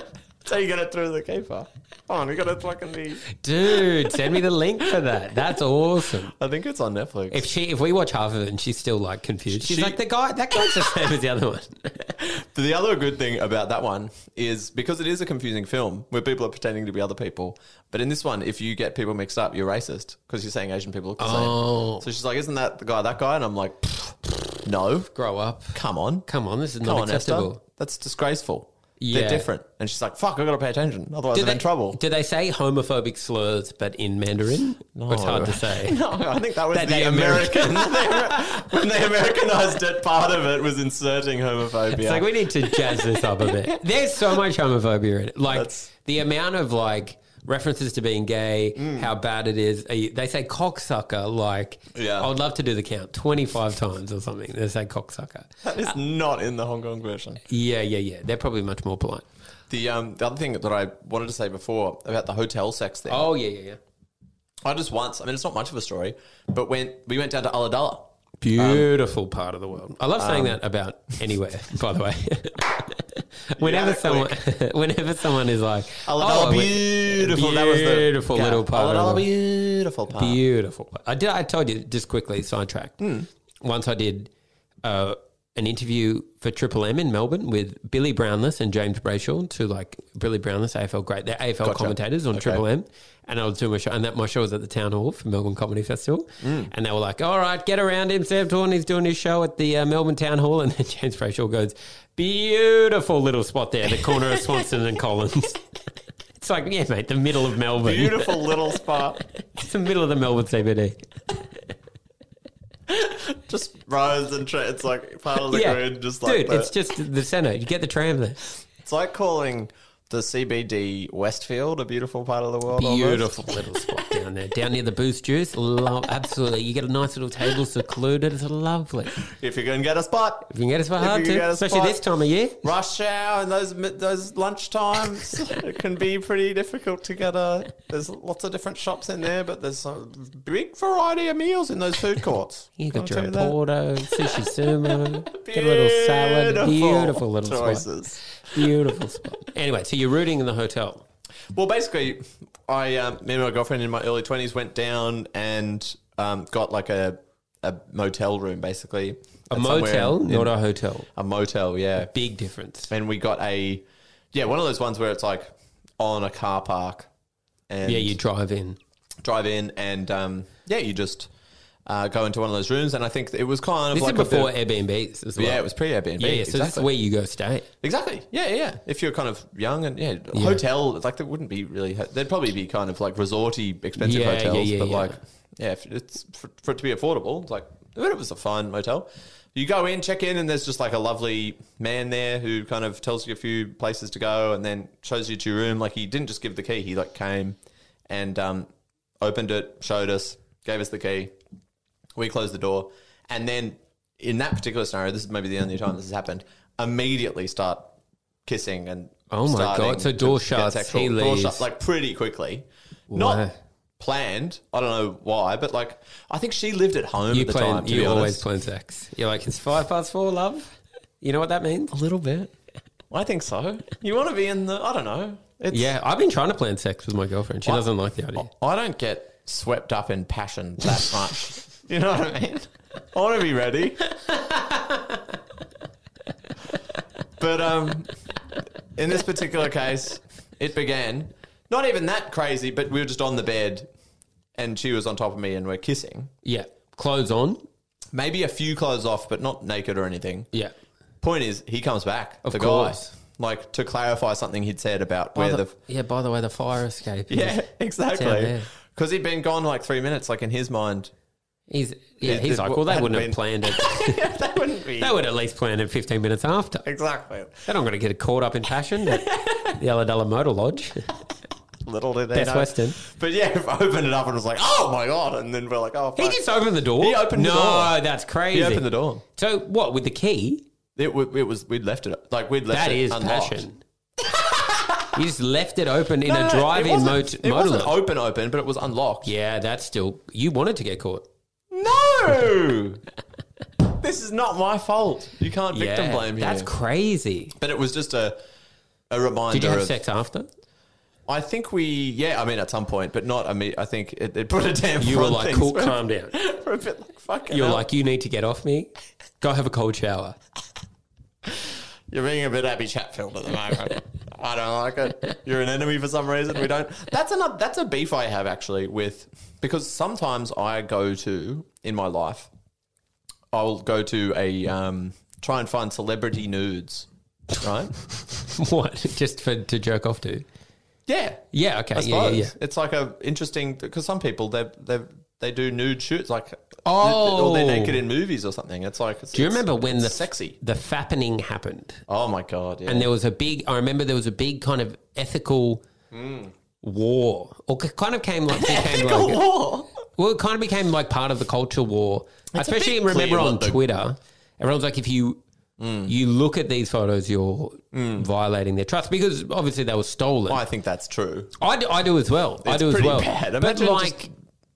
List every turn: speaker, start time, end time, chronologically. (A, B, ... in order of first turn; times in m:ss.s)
0:00.4-0:03.3 A
0:03.3-0:06.3 B
0:06.3-0:07.5 A
0:07.3-0:12.1 B
0:09.5-0:10.0 A
0:10.6-0:10.9 A
0:12.2-0:25.1 A
0:21.2-0:22.0 B
0:25.2-0:27.6 B
0:25.7-0:26.3 A
0:26.8-0:32.0 A
0:29.0-0:29.5 B
0:31.3-0:36.0 B
0:35.0-0:43.8 A
0:36.7-0:38.5 B
0:41.9-0:55.9 B
0:45.5-0:45.9 A
0:48.8-0:49.1 A
0:52.0-0:52.3 A
0:55.6-0:57.4 A
0:57.5-0:59.2 B
0:59.7-1:03.2 A
1:03.1-1:03.8 B
1:04.6-1:08.9 A
1:08.4-1:19.3 B
1:10.2-1:10.6 A
1:13.6-1:14.4 A
1:16.0-1:20.4 A
1:20.2-1:23.0 B
1:23.0-1:23.3 A
1:23.6-1:24.3 B
1:24.8-1:45.6 B
1:31.6-1:32.6 A
1:36.4-1:36.7 A
1:46.4-1:48.6 B
1:47.8-1:49.2 A
1:49.4-1:51.0 B
1:52.9-1:56.7 A
1:55.5-1:58.4 B
1:58.8-2:03.6 A
2:02.8-2:09.2 B
2:09.2-2:12.0 A
2:10.5-2:12.6 B
2:12.6-2:23.6 A
2:22.8-2:31.0 B
2:24.1-2:28.7 A
2:31.5-2:40.5 A
2:39.5-2:41.1 B
2:41.1-2:42.1 A
2:42.1-2:42.9 B
2:42.9-2:47.1 A
2:47.7-2:48.2 A
2:47.8-2:48.8 B
2:49.2-2:51.3 A
2:51.9-2:54.5 A
2:53.9-2:55.6 B
2:55.4-2:56.9 A
2:56.2-2:57.7 B
2:57.8-3:17.6 A
3:00.3-3:00.6 B
3:04.0-3:05.2 B
3:18.1-3:18.7 A
3:19.2-3:21.4 A
3:22.2-3:28.0 A
3:28.5-3:33.4 A
3:29.3-3:31.6 B
3:33.1-3:33.6 B
3:34.0-3:38.4 A
3:37.3-3:42.0 B
3:41.9-3:42.5 A
3:43.1-3:45.9 A
3:45.7-3:48.5 B
3:47.6-3:54.2 A
3:57.4-3:58.2 A
3:59.0-4:03.9 A
4:04.6-4:06.3 A
4:06.4-4:07.6 B
4:08.1-4:10.5 A
4:11.2-4:15.8 A
4:12.4-4:13.1 B
4:15.4-4:18.7 B
4:17.3-4:21.1 A
4:21.7-4:24.2 B
4:22.2-4:25.2 A
4:25.0-4:26.8 B
4:26.8-4:27.7 A
4:27.6-4:31.1 B
4:29.1-4:29.7 A
4:31.8-4:36.4 A
4:32.3-4:33.0 B
4:36.2-4:40.7 B
4:37.0-4:38.0 A
4:38.5-4:39.2 A
4:41.0-4:43.6 A
4:42.7-4:43.8 B
4:44.2-4:45.2 A
4:45.1-4:47.9 B
4:46.2-4:49.3 A
4:49.2-4:51.3 B
4:51.7-4:53.0 A
4:53.8-4:56.7 A
4:55.7-4:57.5 B
4:57.6-4:58.4 A
4:59.1-5:00.0 A
4:59.5-5:00.5 B
5:01.3-5:07.9 A
5:05.0-5:06.4 B
5:07.5-5:10.4 B
5:11.5-5:22.5 A
5:23.5-5:27.1 A
5:27.6-5:27.9 A
5:28.2-5:30.4 B
5:31.1-5:40.6 A
5:31.5-5:32.5 B
5:36.8-5:38.0 B
5:39.3-5:42.0 B
5:42.1-5:43.1 A
5:42.9-5:45.8 B
5:46.1-5:46.5 A
5:46.8-5:49.5 B
5:48.5-5:49.9 A
5:50.2-5:55.4 B
5:52.5-5:53.8 A
5:55.8-5:56.1 A
5:56.1-6:00.6 B
5:57.9-5:58.3 A
6:00.5-6:01.5 A
6:01.6-6:04.3 B
6:02.6-6:04.3 A